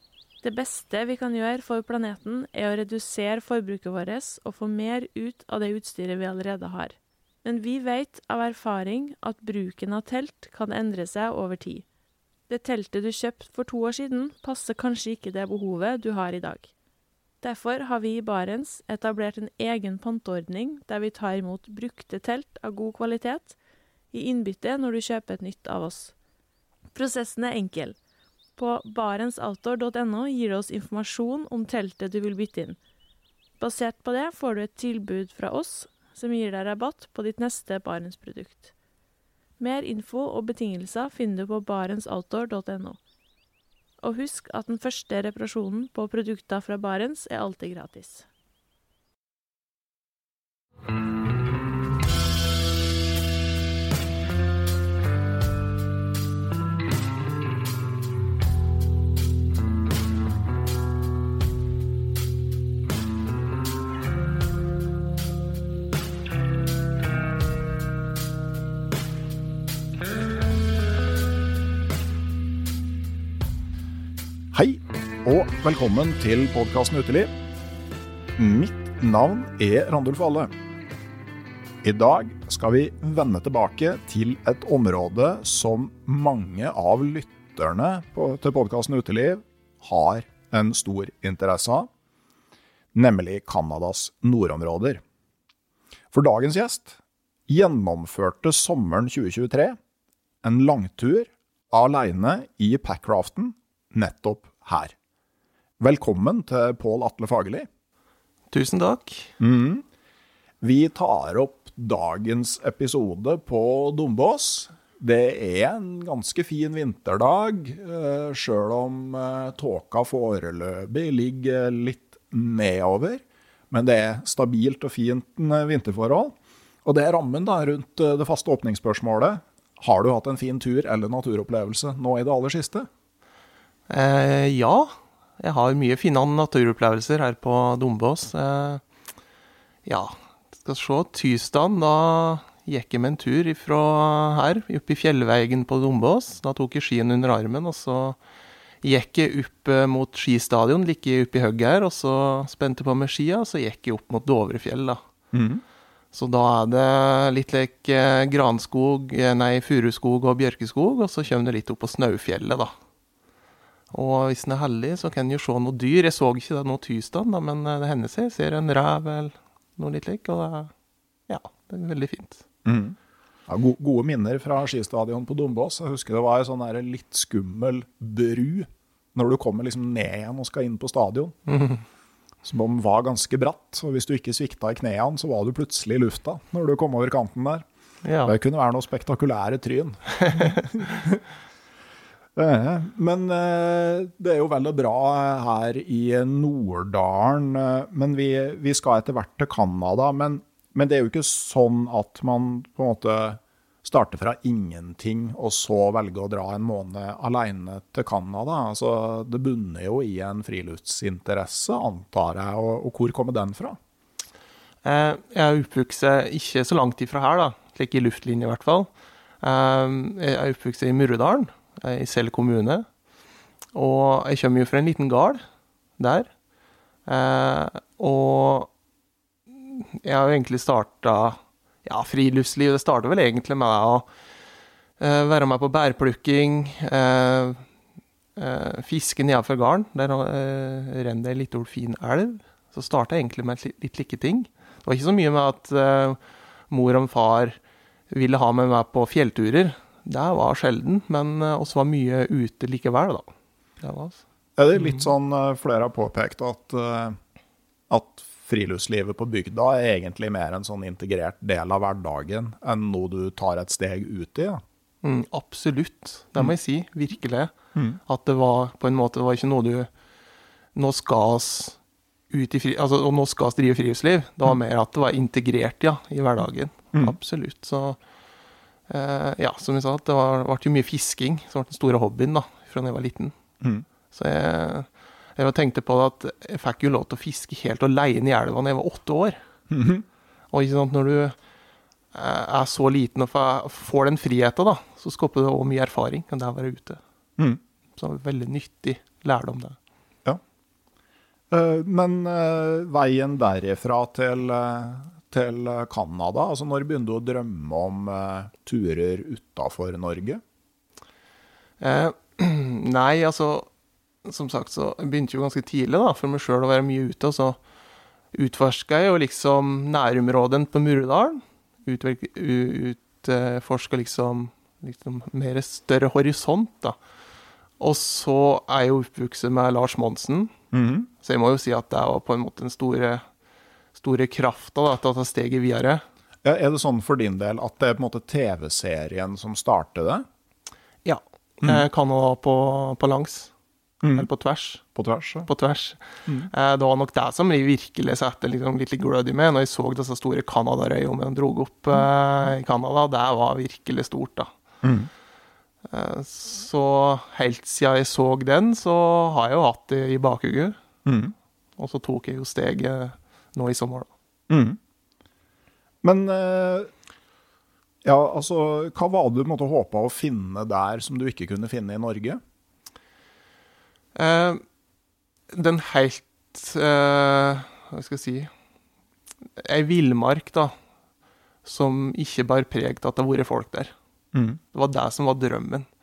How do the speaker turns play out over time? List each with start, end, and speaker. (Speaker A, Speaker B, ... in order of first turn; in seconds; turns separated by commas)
Speaker A: 0.4-11.9, Speaker A: 12.5-16.7, Speaker A: 17.4-23.6, Speaker A: 24.1-26.1, Speaker A: 26.9-28.0, Speaker A: 28.6-32.8, Speaker A: 33.6-38.7, Speaker A: 39.6-43.0, Speaker A: 44.0-48.2, Speaker B: 74.5-77.3, Speaker B: 78.3-80.5, Speaker B: 81.8-91.9, Speaker B: 92.9-95.0, Speaker B: 96.1-99.8, Speaker B: 100.4-104.9, Speaker B: 105.8-107.7, Speaker C: 108.5-109.3, Speaker B: 109.4-109.8, Speaker B: 110.6-132.9, Speaker C: 133.9-138.8, Speaker C: 139.8-148.2, Speaker C: 148.8-155.0, Speaker B: 155.3-155.6, Speaker C: 156.1-162.7, Speaker C: 163.9-170.7, Speaker C: 171.3-172.4, Speaker B: 172.7-172.9, Speaker B: 173.5-181.3, Speaker C: 181.5-181.8, Speaker B: 182.4-187.7, Speaker C: 188.0-188.3, Speaker B: 188.2-191.2, Speaker C: 190.2-190.6, Speaker B: 192.3-213.8, Speaker C: 214.8-218.9, Speaker C: 219.4-222.9, Speaker C: 223.7-225.4, Speaker C: 226.0-226.3, Speaker C: 227.1-228.7, Speaker C: 229.5-234.1, Speaker C: 235.0-237.7, Speaker C: 238.3-246.2, Speaker C: 246.7-247.6, Speaker C: 248.1-253.3, Speaker C: 253.8-254.2, Speaker B: 254.6-257.2, Speaker C: 254.7-255.1, Speaker B: 257.9-264.6, Speaker C: 265.0-267.5, Speaker C: 268.1-269.9, Speaker C: 270.8-271.8, Speaker C: 272.3-278.0, Speaker C: 278.9-283.4, Speaker C: 284.1-289.4, Speaker B: 289.7-290.1, Speaker C: 290.5-291.4, Speaker C: 292.1-297.0, Speaker C: 298.0-299.8, Speaker B: 301.5-310.4, Speaker C: 311.8-313.7, Speaker C: 314.2-317.6, Speaker C: 318.3-327.0, Speaker C: 327.8-330.5, Speaker B: 330.7-331.1, Speaker C: 331.2-333.3, Speaker C: 334.0-336.0, Speaker B: 336.4-340.3, Speaker C: 341.1-343.5, Speaker B: 344.0-344.3, Speaker C: 344.1-344.9, Speaker B: 345.0-345.5, Speaker C: 345.4-354.5, Speaker B: 354.8-355.1, Speaker C: 355.9-360.8, Speaker B: 361.1-361.3, Speaker C: 361.8-364.1, Speaker B: 364.5-364.8, Speaker B: 366.0-366.9, Speaker B: 368.0-372.4, Speaker C: 374.1-374.6, Speaker C: 375.5-378.5, Speaker C: 379.6-380.8, Speaker C: 381.6-383.9, Speaker B: 384.3-384.6, Speaker C: 384.7-385.9